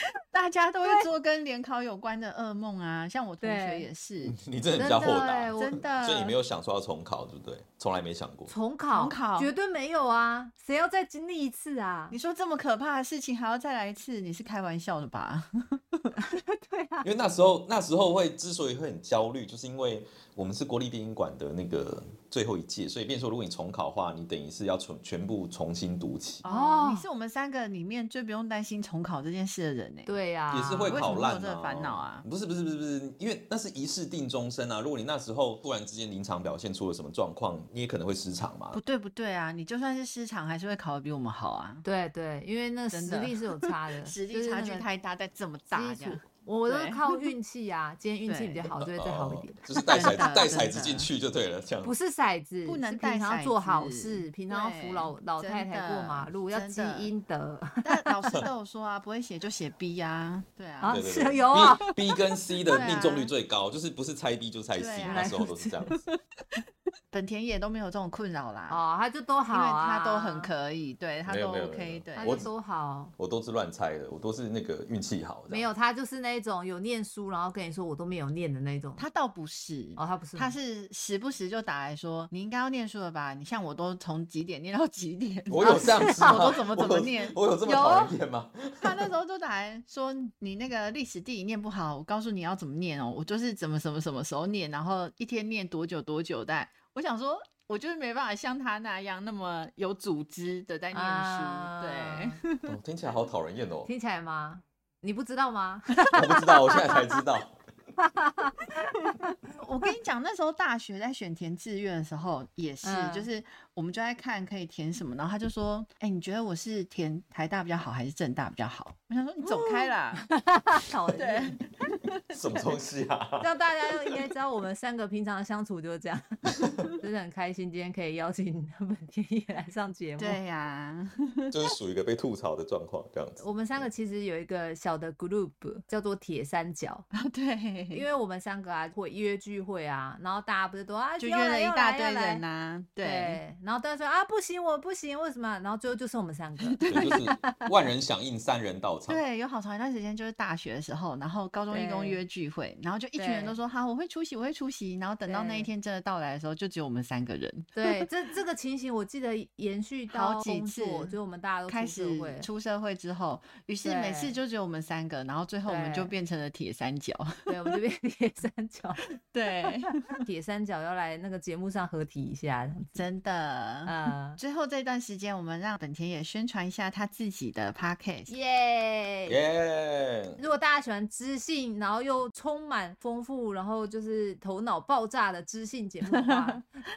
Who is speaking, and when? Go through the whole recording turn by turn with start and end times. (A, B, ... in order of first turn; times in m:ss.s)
0:00.3-0:04.4 A
0:03.4-0:03.9 B
0:04.3-0:08.5 C
0:04.8-0:05.8 B
0:05.6-0:06.3 A
0:08.5-0:12.2 B
0:08.9-0:09.5 A
0:12.1-0:16.1 A
0:16.2-0:17.1 B
0:17.0-0:26.4 C
0:26.4-0:27.1 B
0:26.4-0:30.1 A
0:30.1-0:31.2 B
0:30.5-0:38.8 C
0:30.9-0:32.2 A
0:38.7-0:41.8 A
0:41.8-0:44.9 B
0:42.9-0:47.3 A
0:45.7-0:50.6 B
0:48.3-0:48.8 A
0:48.8-0:51.9 C
0:49.9-0:51.1 A
0:51.8-0:58.4 B
0:52.6-0:57.1 A
0:57.8-1:01.0 A
1:00.8-1:01.9 B
1:00.8-1:06.1 C
1:02.7-1:03.3 A
1:04.7-1:06.1 A
1:05.0-1:05.7 B
1:07.1-1:08.8 A
1:08.7-1:10.5 B
1:09.5-1:12.5 A
1:11.3-1:12.5 C
1:12.2-1:13.1 B
1:13.2-1:15.7 C
1:15.5-1:19.0 B
1:19.0-1:28.2 A
1:20.0-1:20.5 B
1:25.5-1:29.1 C
1:25.6-1:26.5 B
1:28.8-1:42.7 A
1:40.9-1:42.4 B
1:42.7-1:43.9 C
1:43.9-1:47.2 B
1:46.1-1:47.6 C
1:48.0-1:49.3 B
1:49.5-2:00.3 A
1:52.8-1:53.3 B
1:59.4-2:01.6 B
2:01.2-2:02.6 A
2:02.3-2:03.5 C
2:03.4-2:10.4 B
2:10.2-2:11.5 A
2:11.5-2:13.8 C
2:13.4-2:17.1 B
2:17.1-2:18.0 A
2:17.9-2:22.4 B
2:21.2-2:23.4 A
2:23.0-2:27.6 B
2:26.6-2:27.1 A
2:26.9-2:29.2 C
2:29.1-2:38.0 A
2:31.7-2:32.2 B
2:33.2-2:33.6 B
2:35.3-2:35.7 B
2:37.8-2:42.5 B
2:40.1-2:41.2 A
2:41.7-2:47.5 A
2:43.8-2:44.4 B
2:45.7-2:46.1 B
2:47.5-2:49.0 B
2:49.3-2:50.2 A
2:49.7-2:53.0 B
2:53.0-2:58.3 A
2:53.9-2:54.4 B
2:58.3-2:59.4 B
2:59.3-3:00.4 C
3:00.4-3:06.6 B
3:06.1-3:06.6 A